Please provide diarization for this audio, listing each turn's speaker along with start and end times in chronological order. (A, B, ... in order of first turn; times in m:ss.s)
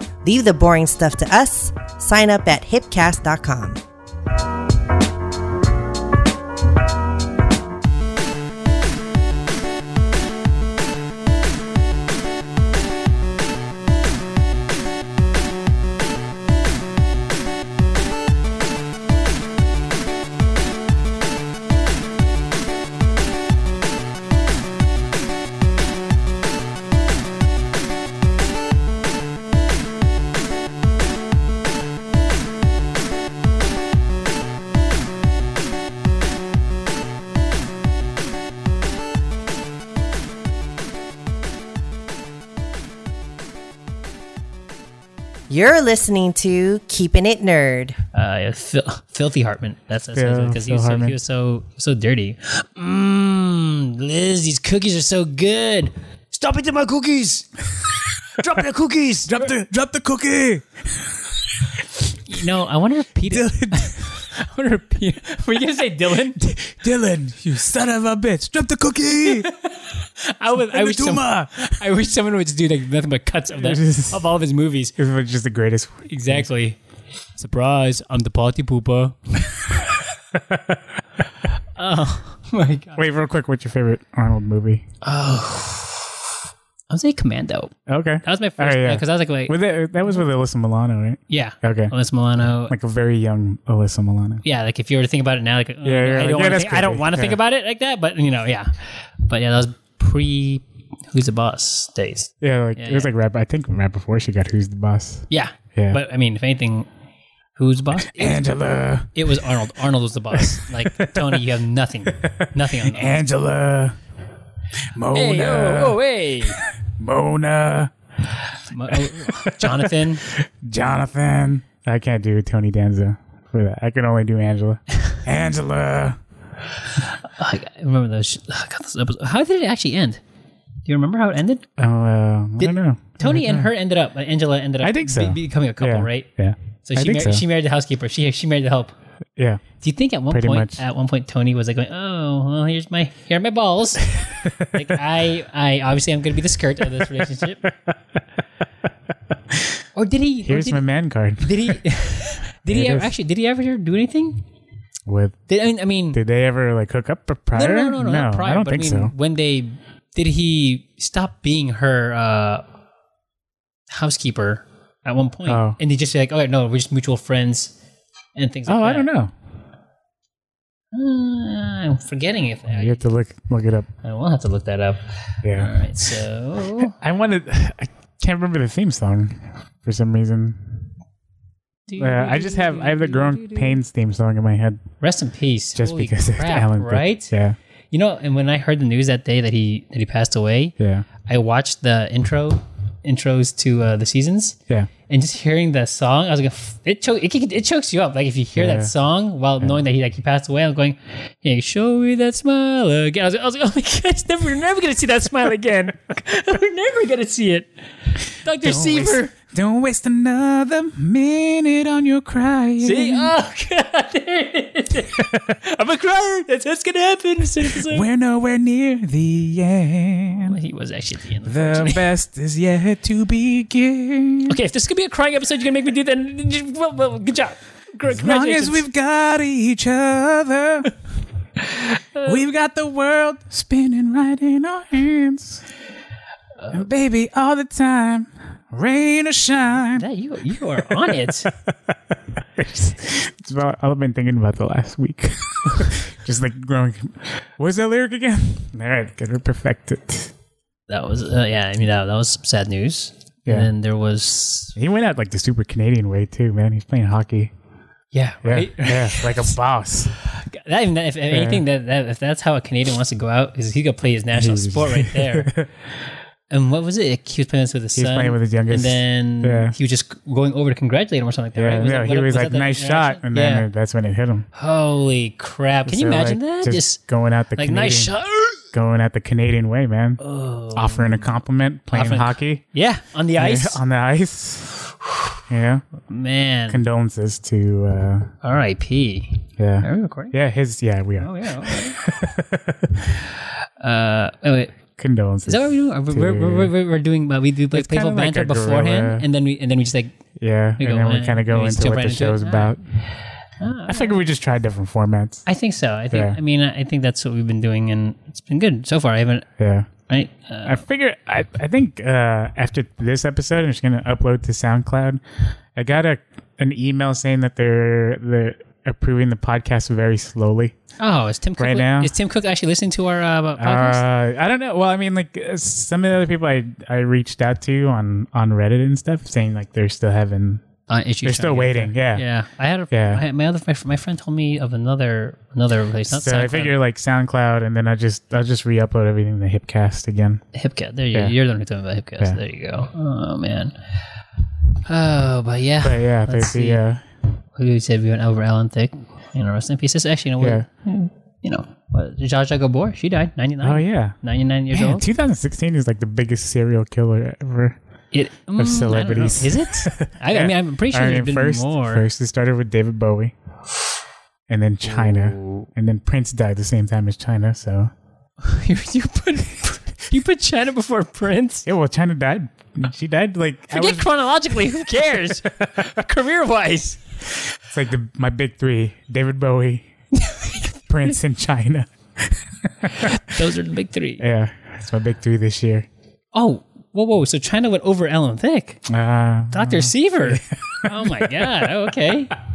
0:00.2-0:03.8 A
0:45.5-0:48.0 A
0:48.1-0:57.6 B
0:50.1-0:51.2 C
0:58.3-0:59.5 B
0:59.2-1:01.1 C
1:02.2-1:06.4 B
1:03.3-1:04.2 C
1:06.4-1:09.5 C
1:09.2-1:15.0 B
1:10.6-1:11.8 C
1:13.6-1:14.2 C
1:15.0-1:16.4 C
1:16.1-1:16.8 B
1:17.4-1:19.8 B
1:20.3-1:20.8 C
1:21.8-1:23.0 B
1:23.0-1:24.9 C
1:25.0-1:26.3 B
1:26.9-1:29.6 B
1:27.9-1:31.9 C
1:31.3-1:32.7 B
1:32.7-1:34.4 C
1:34.4-1:43.1 B
1:35.8-1:37.4 C
1:42.4-1:46.0 C
1:45.3-1:46.9 B
1:47.6-1:48.5 B
1:48.0-1:49.2 C
1:49.1-1:53.2 B
1:50.3-1:51.4 C
1:52.1-1:54.0 C
1:54.9-1:56.0 C
1:55.1-1:56.6 B
1:56.7-1:57.9 C
1:58.7-2:00.3 B
1:58.9-2:06.2 C
2:07.0-2:10.2 B
2:10.8-2:11.7 B
2:11.8-2:13.7 C
2:12.6-2:16.3 B
2:14.8-2:17.4 C
2:16.8-2:19.0 B
2:19.4-2:19.6 C
2:19.8-2:27.7 B
2:20.3-2:20.8 C
2:24.4-2:24.9 C
2:27.9-2:28.2 C
2:30.0-2:30.8 B
2:30.4-2:31.8 C
2:31.4-2:34.4 B
2:32.7-2:33.1 C
2:35.1-2:35.4 C
2:35.5-2:36.2 B
2:36.1-2:39.1 C
2:37.5-2:42.6 B
2:43.9-2:47.7 B
2:45.5-2:45.8 C
2:48.4-2:49.1 B
2:48.7-2:49.3 C
2:50.9-2:53.2 B
2:52.7-2:53.9 C
2:54.0-2:57.0 B
2:55.4-2:55.8 C
2:56.8-3:00.8 C
3:01.9-3:03.8 B
3:02.0-3:04.8 C
3:05.0-3:07.3 B
3:05.8-3:07.6 C
3:07.9-3:29.3 B
3:10.8-3:11.1 C
3:18.6-3:18.9 C
3:28.5-3:33.3 C
3:32.8-3:38.1 B
3:37.7-3:40.6 C
3:40.4-3:42.1 B
3:41.4-3:44.6 C
3:44.5-3:48.8 B
3:48.1-3:50.9 C
3:51.6-3:52.4 B
3:52.2-3:55.7 C
3:56.7-4:00.1 C
3:59.9-4:01.5 B
4:00.8-4:01.7 C
4:02.6-4:10.3 C
4:10.9-4:14.8 B
4:13.5-4:13.7 C
4:14.8-4:17.5 C
4:18.1-4:19.5 B
4:18.4-4:20.1 C
4:20.2-4:25.5 B
4:21.3-4:21.6 C
4:24.3-4:25.7 C
4:26.5-4:33.7 B
4:28.0-4:29.8 C
4:31.6-4:34.5 C
4:34.6-4:37.0 B
4:35.9-4:40.2 C
4:37.6-4:38.7 B
4:40.2-4:43.8 B
4:40.7-4:42.6 C
4:43.4-4:44.8 C
4:45.5-4:45.9 C
4:46.1-4:46.8 B
4:46.7-4:48.3 C
4:48.4-4:50.4 B
4:49.6-4:53.2 C
4:51.2-4:52.0 B
4:53.4-4:54.8 B
4:55.0-4:56.7 C
4:55.5-5:00.2 B
4:57.7-4:59.3 C
5:00.4-5:02.8 C
5:00.8-5:04.2 B
5:03.9-5:05.4 C
5:05.5-5:09.5 B
5:06.1-5:06.4 C
5:09.6-5:09.9 C
5:10.1-5:10.8 B
5:10.6-5:15.2 C
5:15.8-5:20.8 C
5:21.0-5:24.0 B
5:21.6-5:22.1 C
5:23.6-5:30.7 C
5:30.9-5:36.8 B
5:31.2-5:32.2 C
5:32.9-5:33.2 C
5:36.1-5:40.4 C
5:40.5-5:43.8 B
5:44.9-5:46.8 B
5:45.8-5:47.0 C
5:47.6-5:55.1 B
5:50.4-5:50.7 C
5:53.6-5:54.2 C
5:54.7-5:57.8 C
5:58.1-6:02.0 B
5:58.6-6:03.4 C
6:04.5-6:07.9 C
6:04.9-6:05.7 B
6:08.4-6:11.7 B
6:11.7-6:14.1 C
6:13.7-6:17.1 B
6:15.6-6:15.9 C
6:17.7-6:19.9 C
6:20.2-6:21.1 B
6:20.5-6:23.4 C
6:23.0-6:24.2 B
6:24.2-6:25.9 C
6:26.3-6:28.8 B
6:28.9-6:31.8 C
6:29.5-6:32.4 B